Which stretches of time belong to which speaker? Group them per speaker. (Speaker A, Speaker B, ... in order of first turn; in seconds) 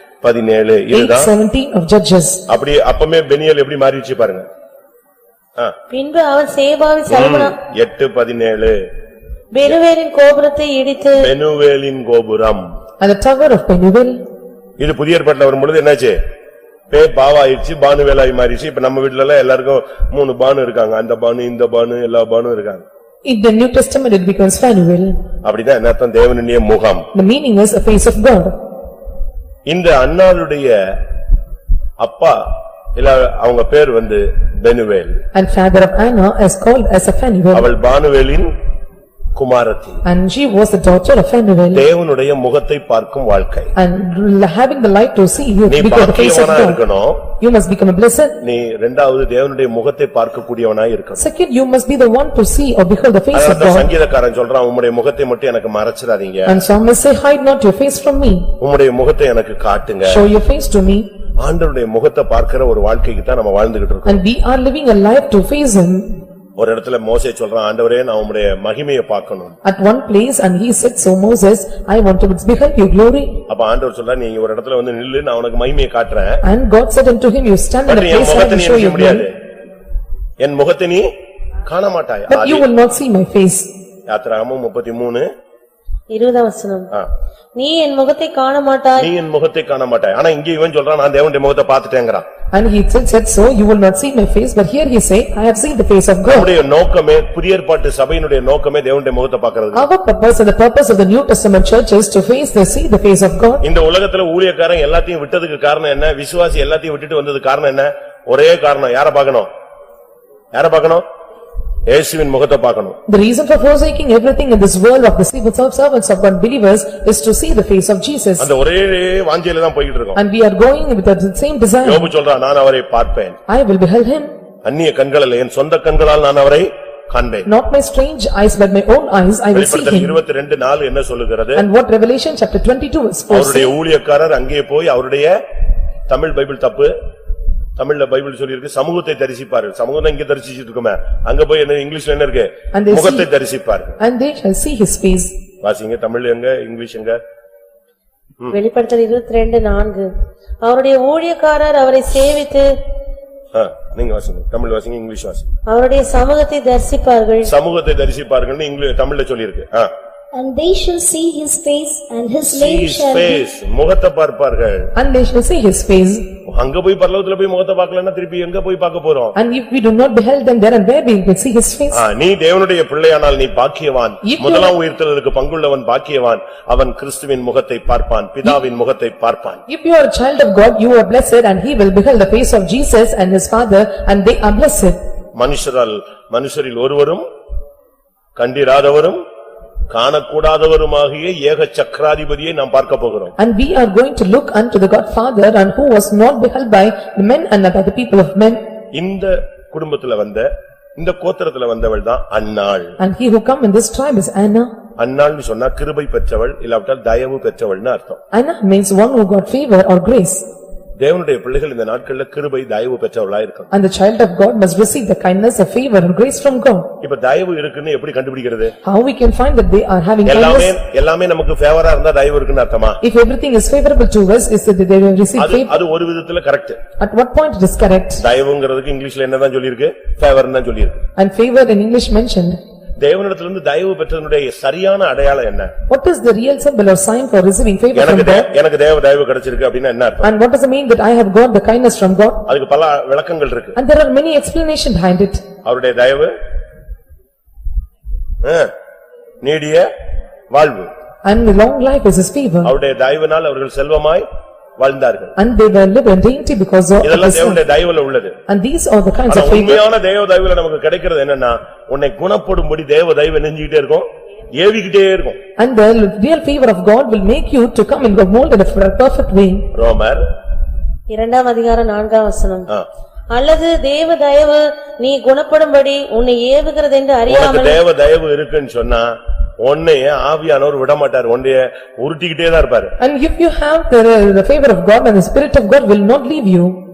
Speaker A: 0.2-1.3, 2.5-4.5, 7.1-8.8, 11.2-12.7, 14.8-16.2, 16.9-22.8, 25.4-27.1, 29.7-31.0, 32.0-32.5, 33.0-35.2, 37.5-38.5, 39.4-40.0, 41.7-43.7, 45.7-47.2, 48.4-51.2, 53.3-56.6, 58.6-60.2, 61.4-64.2, 66.6-69.6, 73.5-76.4, 77.9-79.3, 80.4-81.1, 81.7-82.7, 84.1-85.3, 89.0-92.2, 96.2-99.8, 103.6-109.5, 110.5-111.0, 111.9-113.0, 118.4-120.2, 121.8-123.4, 124.7-127.5, 129.5-131.6, 133.3-135.3, 136.1-136.9, 137.8-144.0, 145.6-147.2, 153.5-155.5, 157.4-159.9, 162.5-164.9, 166.5-169.4, 171.9-179.6, 185.4-187.2, 188.4-189.2, 189.9-193.3, 198.9-203.0, 205.0-208.2, 211.0-213.7, 217.0-218.7, 220.3-223.0, 225.4-226.8, 228.2-231.1, 233.0-235.7, 237.9-240.3, 242.5-243.8, 245.7-246.3, 248.4-248.7, 249.4-249.9, 250.5-250.9, 252.6-254.2, 254.8-255.3, 257.0-258.4, 259.3-265.4, 269.7-270.2, 277.3-282.9
Speaker B: 0.9-2.4, 13.0-14.2, 23.2-25.2, 27.1-28.6, 35.3-37.7, 40.0-41.9, 43.8-46.8, 47.4-48.4, 51.2-53.9, 56.5-58.5, 60.1-61.1, 64.1-66.2, 69.7-73.4, 76.4-79.3, 82.3-83.7, 92.5-96.5, 99.7-103.6, 113.1-118.5, 120.2-122.1, 123.5-124.3, 127.5-130.2, 131.6-133.7, 142.7-143.3, 144.0-145.4, 165.0-166.3, 169.4-172.0, 174.2-174.7, 179.7-185.0, 193.4-198.6, 203.0-204.7, 208.3-210.5, 213.7-216.9, 218.8-220.8, 223.0-225.7, 227.0-228.2, 231.2-232.6, 235.9-238.5, 240.2-242.5, 243.8-245.4, 251.2-252.7, 255.4-257.6, 258.5-259.8, 265.6-269.7, 283.0-286.8
Speaker C: 5.9-7.6, 9.5-11.3, 86.1-86.9, 87.6-89.1, 148.5-150.1, 150.6-152.7, 155.7-157.5, 271.1-272.7, 273.3-277.8
Speaker D: 160.3-163.4